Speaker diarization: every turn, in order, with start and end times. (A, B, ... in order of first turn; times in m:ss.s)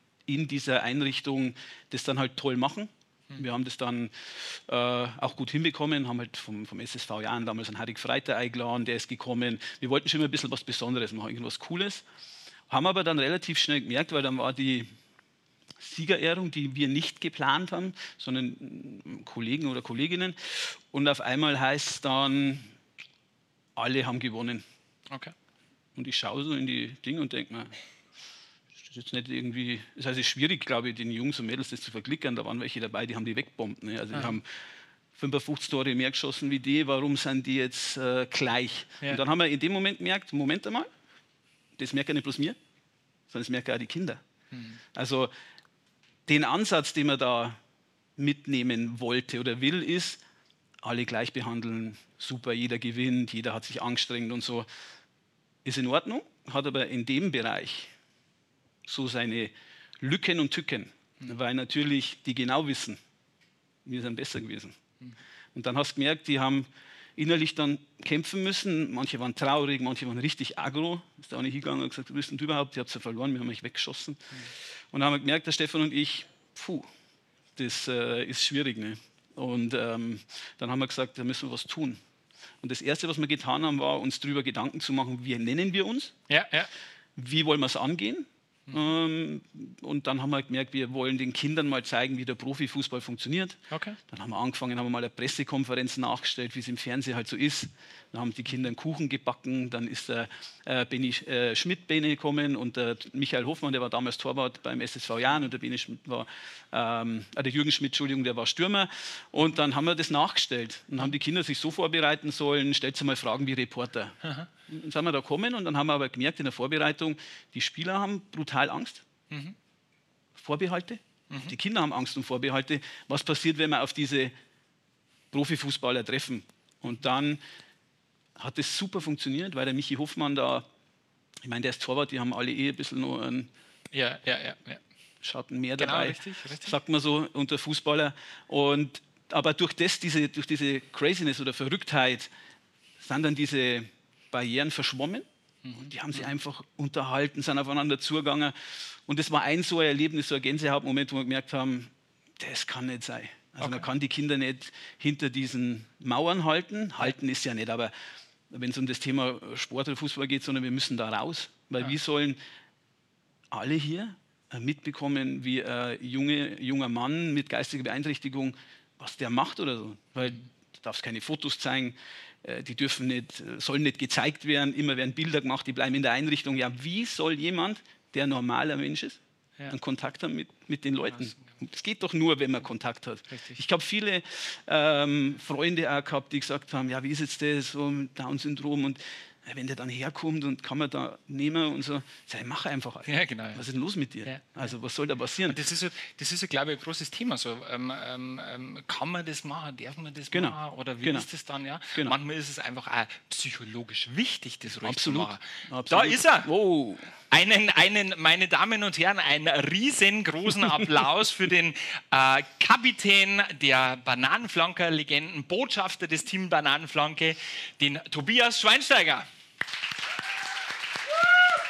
0:00.3-0:12.0 A
0:12.7-0:14.9 A
0:15.8-0:22.7 A
0:23.8-0:24.6 A
0:26.0-0:27.7 A
0:28.8-0:34.4 A
0:35.2-0:40.9 A
0:41.8-0:42.6 A
0:43.3-0:44.2 A
0:44.5-0:44.8 B
0:45.0-0:45.3 A
0:46.3-0:47.6 A
0:48.2-0:50.2 A
0:50.8-0:54.7 A
0:55.6-0:57.9 A
0:58.9-1:03.0 A
1:03.8-1:04.8 A
1:05.6-1:14.2 A
1:14.9-1:16.9 A
1:17.6-1:22.0 A
1:22.6-1:26.1 A
1:26.3-1:26.7 B
1:27.2-1:33.6 A
1:33.7-1:34.0 B
1:34.1-1:54.2 A
1:54.2-1:54.5 B
1:54.7-1:59.0 A
2:00.4-2:04.3 A
2:05.3-2:07.4 A
2:08.4-2:10.7 A
2:11.4-2:13.5 A
2:13.9-2:14.8 B
2:15.2-2:22.3 A
2:15.8-2:16.8 B
2:23.0-2:28.5 A
2:25.6-2:26.3 B
2:29.1-2:37.9 A
2:33.6-2:33.9 B
2:38.5-2:42.4 A
2:43.5-3:15.6 A
3:01.2-3:01.4 B
3:03.3-3:03.6 B
3:13.1-3:13.6 B
3:14.2-3:14.7 B
3:15.4-3:26.5 B
3:20.3-3:21.3 A
3:24.8-3:27.1 A
3:27.3-3:39.3 B